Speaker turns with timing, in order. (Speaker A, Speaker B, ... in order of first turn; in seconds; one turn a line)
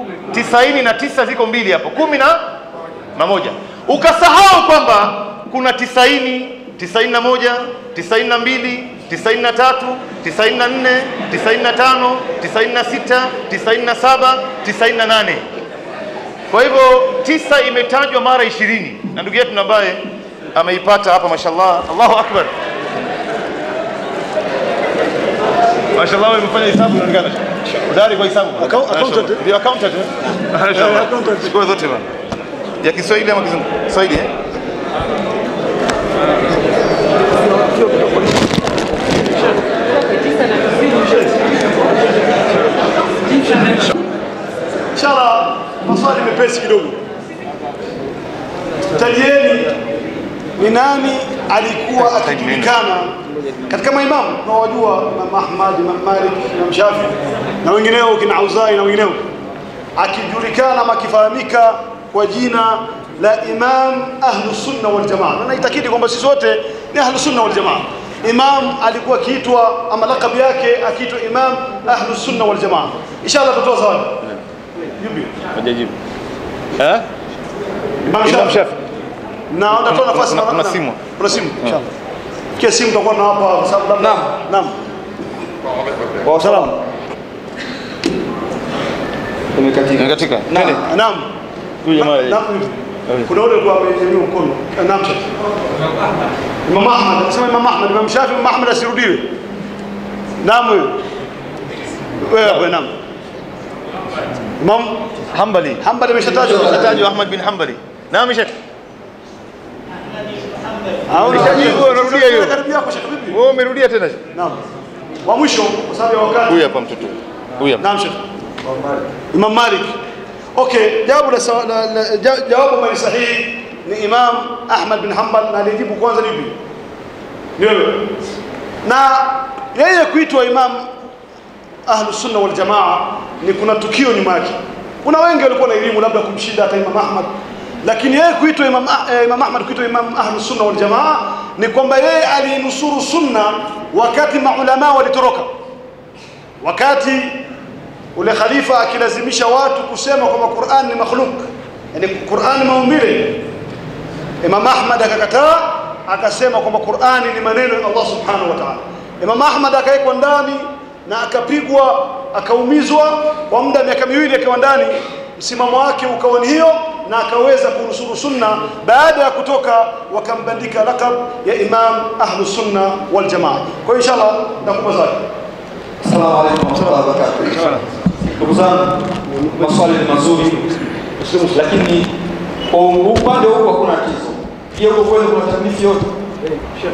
Speaker A: 0.3-2.4
Speaker A: 3.1-15.4
Speaker A: 16.5-20.0
Speaker A: 20.5-22.5
Speaker A: 25.9-32.1
Speaker B: 28.6-29.4
Speaker B: 30.6-31.6
Speaker A: 32.8-34.3
Speaker B: 37.6-38.4
Speaker B: 45.0-47.0
Speaker B: 48.9-49.8
Speaker B: 50.6-53.1
Speaker A: 52.0-52.8
Speaker B: 53.7-59.2
Speaker B: 60.0-74.2
Speaker B: 75.0-75.3
Speaker A: 75.5-76.0
Speaker A: 76.8-77.0
Speaker B: 78.1-78.5
Speaker A: 78.2-78.8
Speaker B: 79.5-81.9
Speaker A: 79.7-81.0
Speaker B: 82.6-84.7
Speaker C: 84.0-84.3
Speaker C: 86.2-86.8
Speaker B: 86.4-86.7
Speaker C: 89.5-90.8
Speaker A: 90.0-90.8
Speaker B: 90.7-91.3
Speaker A: 91.8-92.4
Speaker B: 91.9-95.3
Speaker A: 93.1-93.3
Speaker B: 96.7-99.3
Speaker B: 100.4-101.0
Speaker B: 102.2-102.9
Speaker A: 102.4-102.7
Speaker B: 104.6-105.0
Speaker A: 105.3-105.8
Speaker B: 105.8-106.9
Speaker C: 106.3-107.0
Speaker A: 106.6-108.5
Speaker B: 111.1-113.4
Speaker A: 111.2-112.6
Speaker C: 111.3-111.8
Speaker A: 113.3-114.2
Speaker B: 115.2-116.6
Speaker A: 116.5-117.9
Speaker B: 117.8-118.2
Speaker C: 118.6-119.0
Speaker B: 119.3-120.0
Speaker B: 120.6-126.6
Speaker B: 127.6-128.1
Speaker B: 128.8-130.8
Speaker B: 131.9-137.3
Speaker B: 137.8-145.5
Speaker B: 146.6-147.4
Speaker B: 148.2-153.4
Speaker B: 154.4-175.2
Speaker C: 176.0-177.6
Speaker B: 176.8-177.7
Speaker A: 177.6-177.8
Speaker C: 178.4-179.0
Speaker B: 179.3-179.8
Speaker C: 179.6-180.7
Speaker B: 181.2-181.6
Speaker C: 181.5-182.1
Speaker C: 182.7-186.1